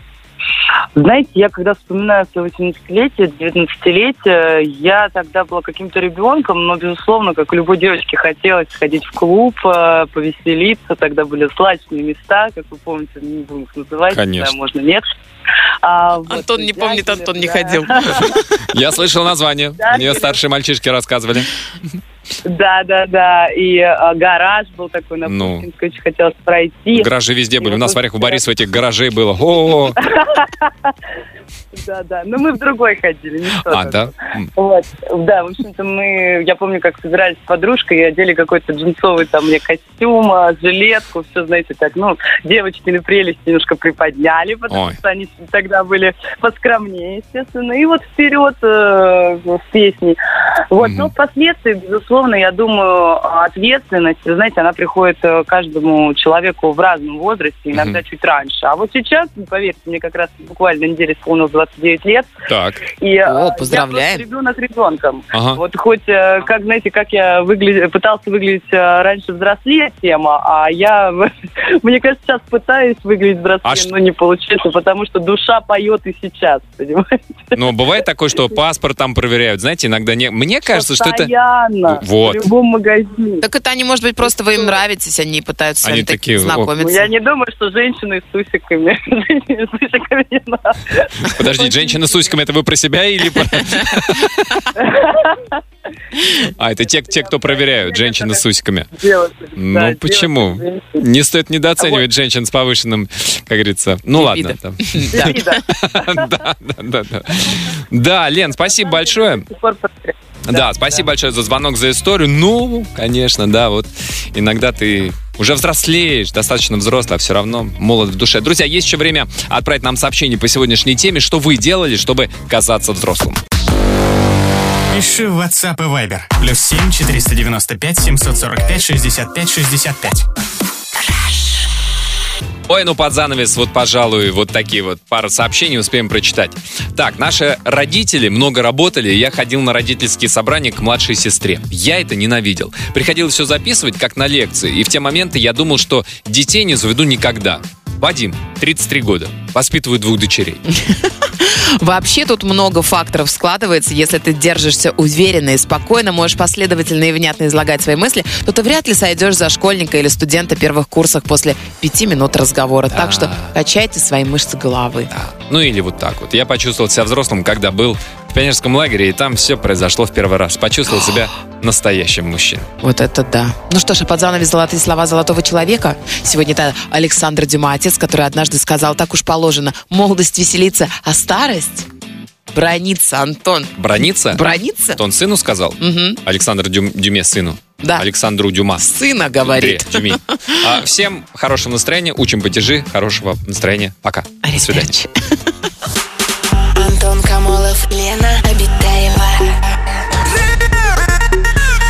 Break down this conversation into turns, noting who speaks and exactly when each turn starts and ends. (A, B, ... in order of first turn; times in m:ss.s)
0:00.9-0:15.0 A
0:14.1-0:14.5 B
0:15.8-0:18.4 A
0:16.3-0:18.4 C
0:18.7-0:21.5 B
0:19.8-0:20.4 A
0:22.4-0:28.4 A
0:25.2-0:25.6 B
0:26.9-0:30.0 B
0:30.0-0:30.9 A
0:31.7-0:50.2 A
0:33.6-0:34.5 B
0:44.7-0:45.0 B
0:50.7-1:02.3 A
0:50.8-0:51.1 B
0:57.7-0:58.0 B
1:02.5-1:02.8 B
1:03.0-1:17.7 A
1:03.2-1:04.2 C
1:05.3-1:05.6 B
1:13.6-1:13.9 B
1:17.5-1:21.3 B
1:20.7-1:23.4 A
1:21.8-1:22.4 B
1:23.4-1:27.1 C
1:25.8-1:26.7 B
1:26.8-1:32.3 A
1:31.2-1:34.6 B
1:34.7-1:35.5 A
1:36.4-1:38.9 B
1:36.8-1:38.4 A
1:38.9-1:41.0 A
1:39.6-1:49.5 B
1:41.8-1:42.0 A
1:44.2-1:45.4 C
1:45.1-1:46.4 A
1:48.8-1:51.0 A
1:50.5-2:03.4 B
2:04.9-2:10.2 D
2:12.7-2:30.6 B
2:30.7-2:45.1 C
2:42.9-2:43.5 B
2:45.1-2:52.7 B
2:52.8-3:01.9 C
3:02.5-3:05.0 C
3:03.8-3:04.4 B
3:05.0-3:08.8 B
3:05.8-3:06.2 C
3:08.8-3:10.7 C
3:09.4-3:14.9 B
3:14.4-3:15.1 C
3:16.8-3:19.6 E